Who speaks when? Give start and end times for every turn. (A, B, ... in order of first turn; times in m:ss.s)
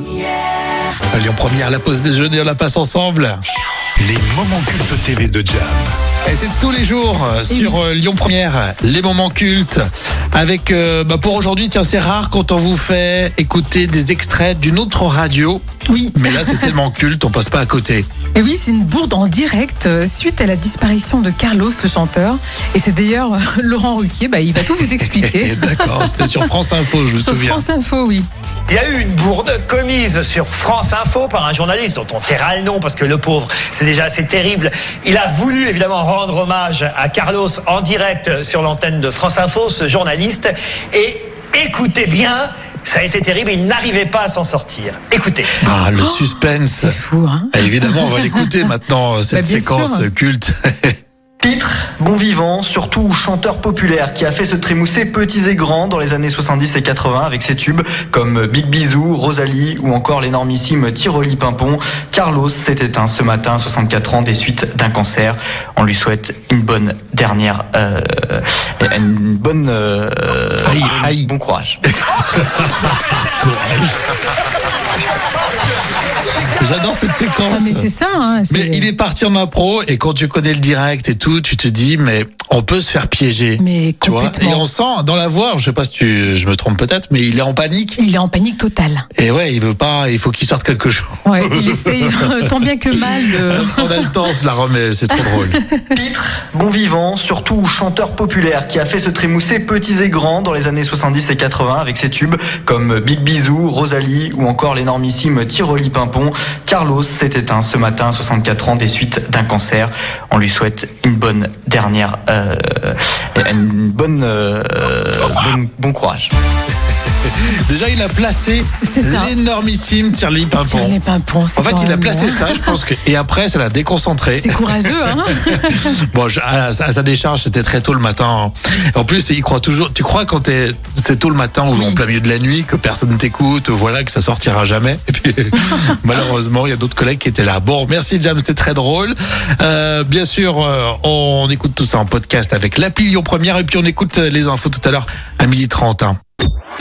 0:01.1-0:03.4 A
0:04.0-0:05.9 B
0:06.2-0:18.1 A
0:07.5-0:07.8 C
0:15.9-0:16.7 C
0:18.3-0:26.5 C
0:25.0-0:27.6 A
0:27.1-0:28.3 C
0:28.7-0:45.5 D
0:45.6-0:47.0 A
0:46.0-0:48.4 C
0:47.5-0:50.9 A
0:49.3-0:50.1 C
0:51.4-1:11.8 E
1:10.6-1:11.3 A
1:12.3-1:13.9 A
1:16.6-1:17.9 A
1:17.5-1:18.9 C
1:18.5-1:28.0 A
1:23.6-1:24.6 C
1:28.0-1:29.0 C
1:29.1-1:31.9 A
1:31.2-1:34.0 C
1:32.9-1:35.6 A
1:35.2-1:35.9 C
1:35.9-1:56.3 E
1:57.0-2:01.0 A
1:58.8-1:59.3 C
2:00.6-2:02.7 C
2:01.6-2:26.2 A
2:04.4-2:05.8 C